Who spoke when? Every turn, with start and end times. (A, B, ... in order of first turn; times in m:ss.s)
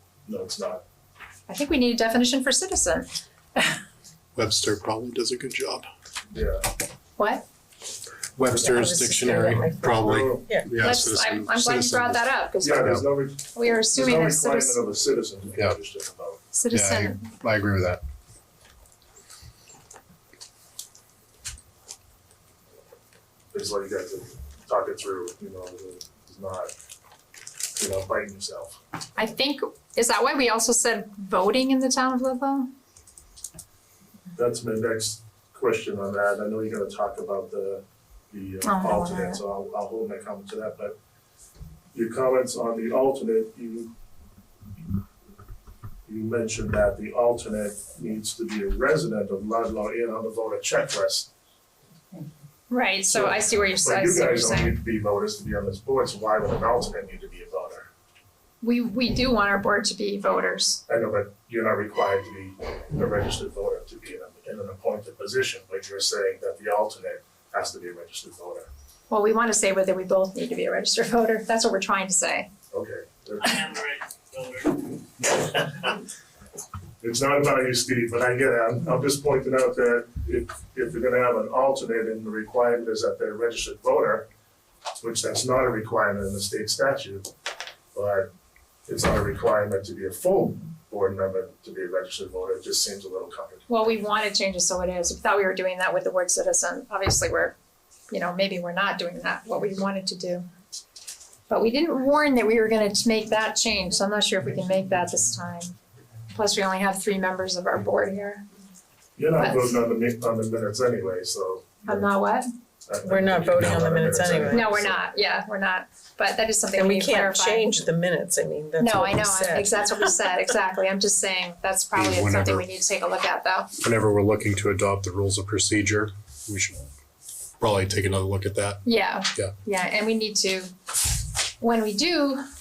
0:00.2-0:00.8 A
0:01.5-0:03.8 B
0:04.4-0:05.9 C
0:06.3-0:06.7 A
0:07.2-0:07.4 B
0:08.4-0:12.2 C
0:08.5-0:10.7 D
0:10.0-0:10.5 A
0:10.8-0:14.8 B
0:12.6-0:16.4 A
0:16.5-0:17.3 B
0:16.7-0:18.0 C
0:23.5-0:26.7 A
0:27.8-0:28.8 A
0:29.2-0:32.7 B
0:34.3-0:41.0 A
0:38.6-0:39.4 B
0:41.9-0:43.9 A
0:46.1-0:51.3 A
0:52.7-0:54.8 B
0:53.1-0:57.9 A
0:58.6-1:00.8 B
1:00.9-1:08.7 A
1:09.1-1:12.5 B
1:12.7-1:13.6 A
1:13.4-1:15.9 E
1:17.0-1:24.3 A
1:25.0-1:27.3 A
1:27.9-1:28.3 A
1:28.9-1:33.7 A
1:33.7-1:37.6 B
1:38.1-1:40.5 B
1:41.5-1:45.8 B
1:46.3-1:48.4 B
1:49.2-1:52.1 A
1:49.4-1:49.7 B
1:51.9-1:52.5 B
1:52.9-1:55.0 A
1:53.0-1:54.7 D
1:53.6-1:53.8 C
1:54.5-1:57.8 B
1:56.8-2:00.1 D
1:58.8-2:03.7 B
2:02.0-2:02.6 C
2:03.8-2:06.9 C
2:07.6-2:08.8 C
2:08.8-2:10.7 B
2:11.6-2:12.4 B